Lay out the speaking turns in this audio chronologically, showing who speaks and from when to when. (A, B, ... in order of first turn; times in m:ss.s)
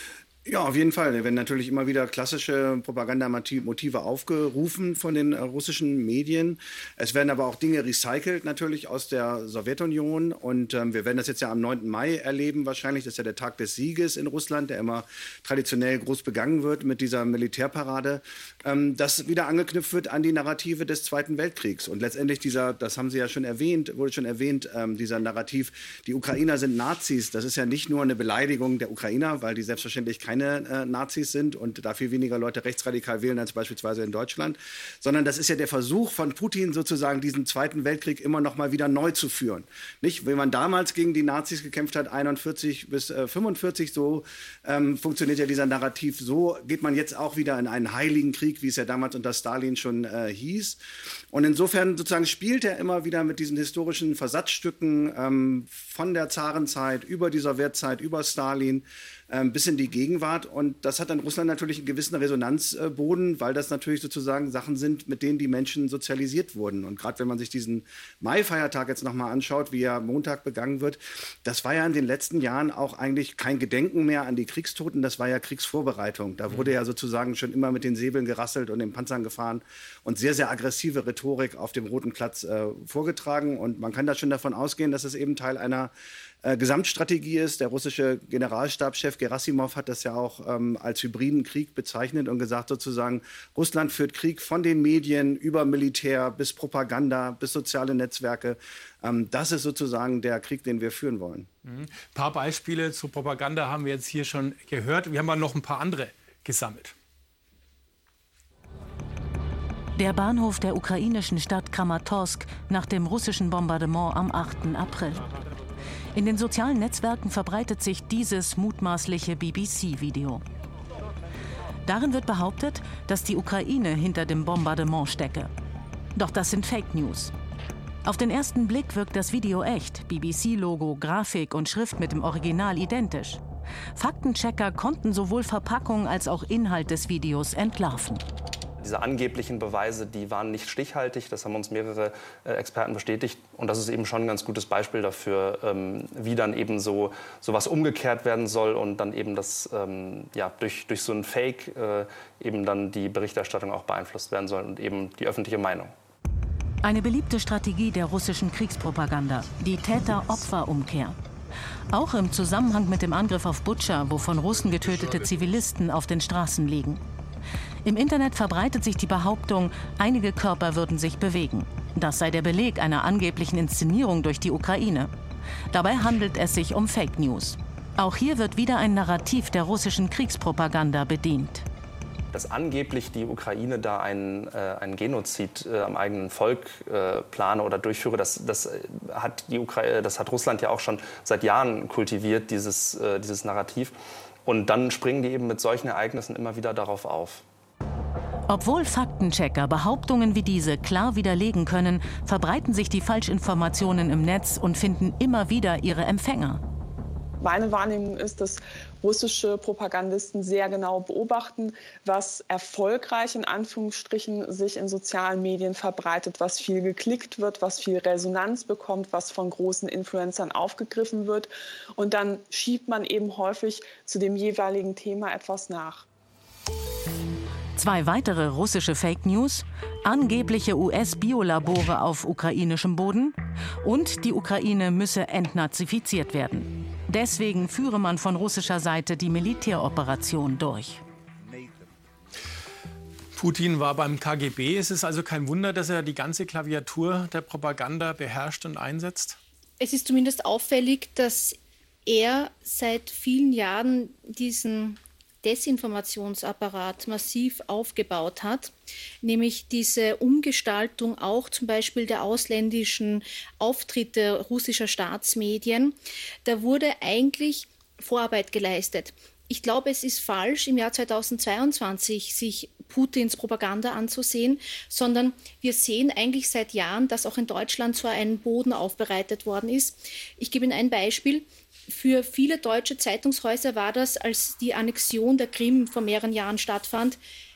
0:00.5-0:50.8 A
0:51.3-1:25.9 A
1:26.4-1:41.5 A
1:41.6-1:46.9 B
1:50.0-1:55.2 C
1:56.1-2:00.4 C
2:01.9-2:05.5 C
2:06.2-2:07.3 C
2:08.0-2:13.4 C
2:14.0-2:18.2 C
2:18.8-2:36.0 D
2:36.8-2:41.2 C
2:41.9-2:47.0 C
2:47.8-2:55.1 C
2:55.7-3:01.7 C
3:02.3-3:17.4 D
3:18.5-3:26.6 C
3:27.4-3:46.1 E
3:47.8-4:01.0 C
4:03.4-4:09.4 B
4:09.8-4:11.6 F
4:12.1-4:18.7 F
4:19.2-4:47.2 F